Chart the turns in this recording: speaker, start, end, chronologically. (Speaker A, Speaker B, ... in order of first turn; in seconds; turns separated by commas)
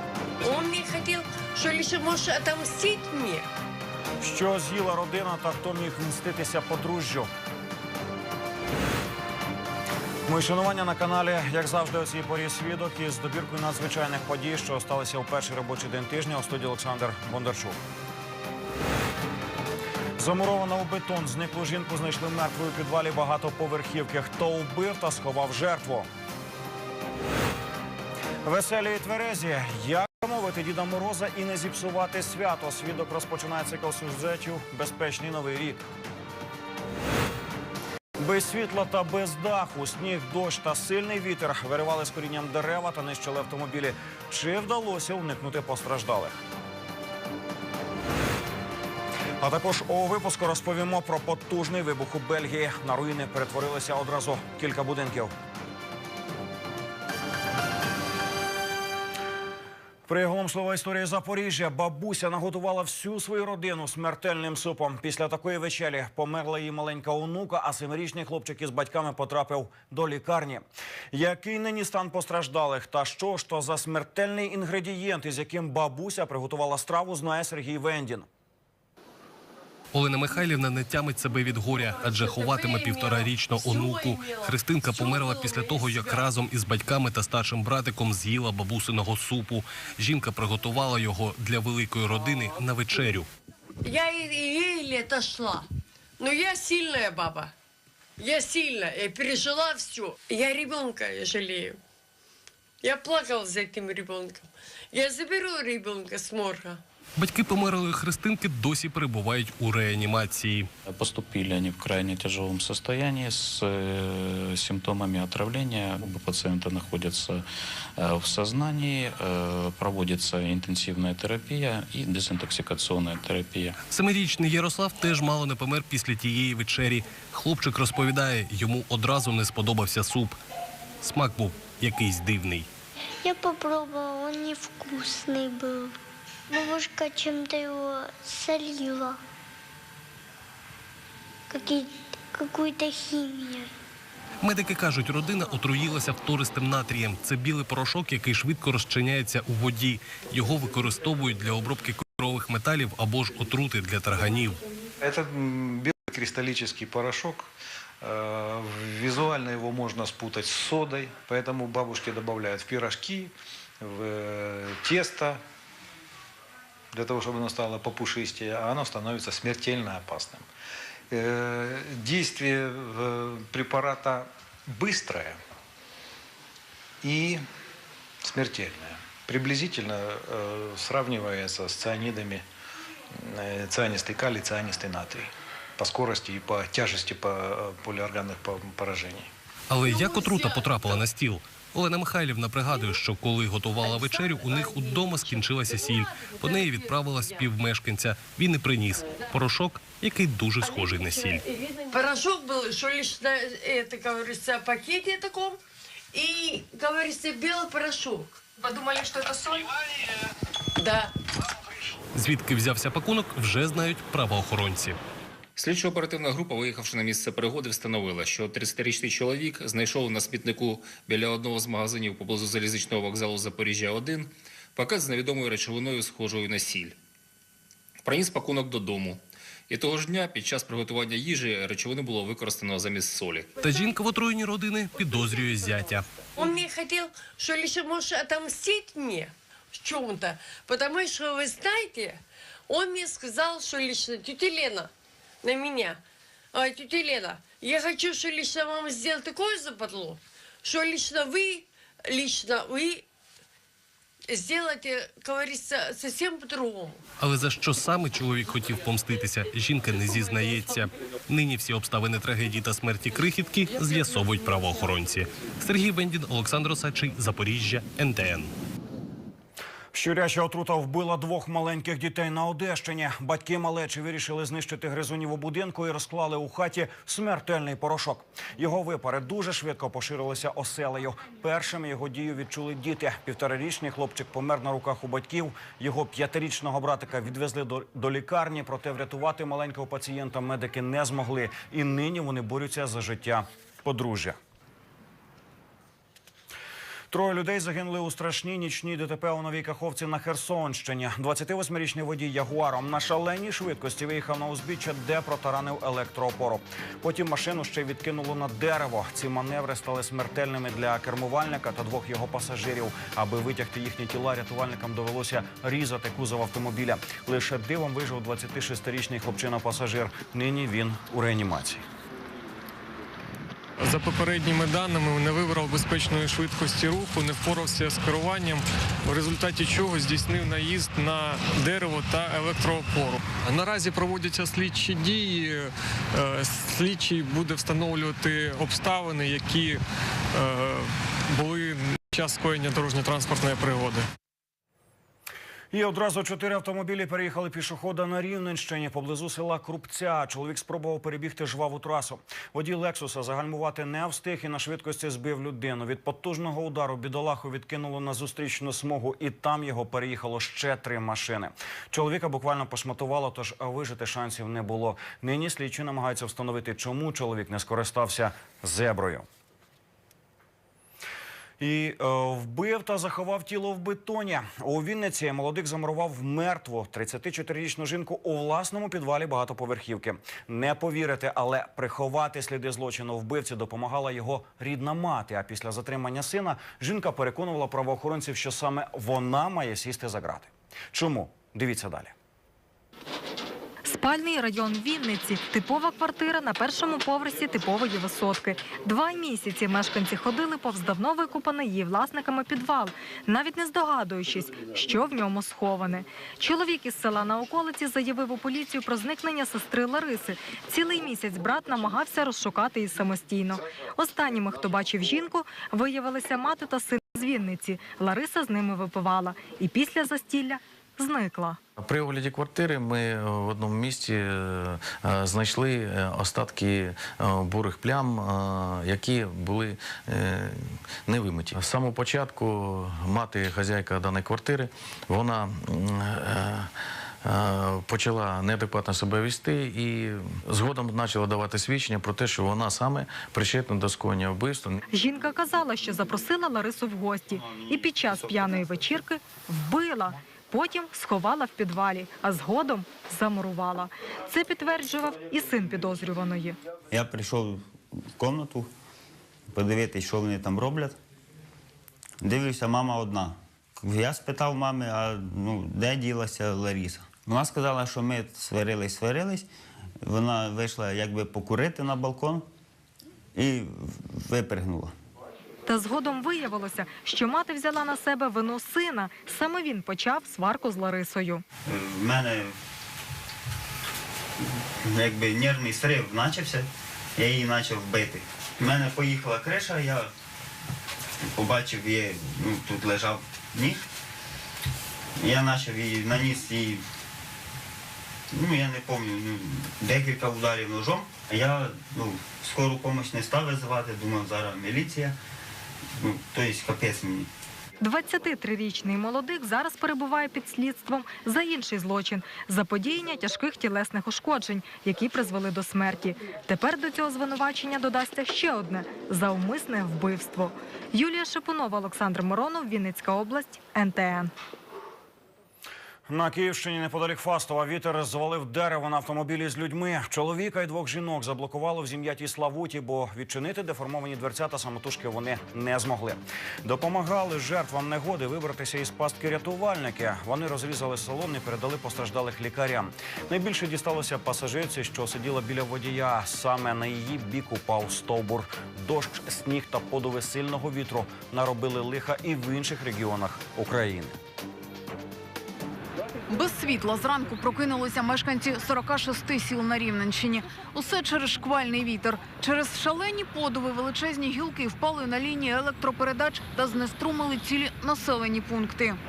Speaker A: 0.4-3.5, Speaker B: 4.2-7.3, Speaker B: 10.2-17.8, Speaker B: 20.2-26.1, Speaker B: 28.4-35.8, Speaker B: 38.2-46.4, Speaker B: 49.4-55.3, Speaker B: 60.0-78.3, Speaker C: 79.9-93.3, Speaker A: 82.2-86.2, Speaker A: 93.8-95.7, Speaker A: 96.2-97.5, Speaker A: 98.2-101.8, Speaker A: 102.8-106.8, Speaker C: 107.2-110.7, Speaker D: 110.9-117.5, Speaker D: 118.0-123.8, Speaker C: 123.9-130.4, Speaker C: 131.0-132.7, Speaker E: 133.2-135.9, Speaker E: 136.5-139.2, Speaker E: 141.5-143.7, Speaker C: 144.4-154.6, Speaker F: 155.0-165.4, Speaker F: 166.9-170.5, Speaker F: 171.1-175.4, Speaker F: 177.0-177.4, Speaker F: 178.2-182.4, Speaker F: 183.2-189.3, Speaker C: 189.7-201.4, Speaker A: 190.1-190.7, Speaker A: 194.2-195.2, Speaker A: 201.9-205.6, Speaker A: 206.1-208.4, Speaker G: 208.6-209.7, Speaker A: 210.8-211.1, Speaker C: 212.1-215.0, Speaker H: 215.6-226.9, Speaker H: 228.0-233.5, Speaker C: 233.6-236.1, Speaker A: 236.4-244.9, Speaker A: 245.4-246.0, Speaker A: 246.5-253.0, Speaker A: 254.3-257.0, Speaker C: 257.2-268.5, Speaker B: 269.9-294.4, Speaker B: 297.1-321.8, Speaker I: 323.8-339.8, Speaker I: 340.3-344.1, Speaker B: 345.7-369.3, Speaker B: 371.6-392.1, Speaker J: 393.8-421.6, Speaker K: 421.8-436.7, Speaker K: 437.2-444.8, Speaker J: 444.9-456.6, Speaker L: 456.9-458.7, Speaker L: 459.5-461.0, Speaker L: 462.2-469.5, Speaker L: 470.0-472.5, Speaker L: 473.3-474.9, Speaker J: 475.6-481.4, Speaker L: 481.6-482.5, Speaker L: 484.8-490.1, Speaker L: 491.3-493.8, Speaker L: 495.2-496.8, Speaker L: 498.3-505.1, Speaker L: 506.0-507.3, Speaker J: 507.8-524.3, Speaker B: 526.1-554.1, Speaker G: 556.3-569.0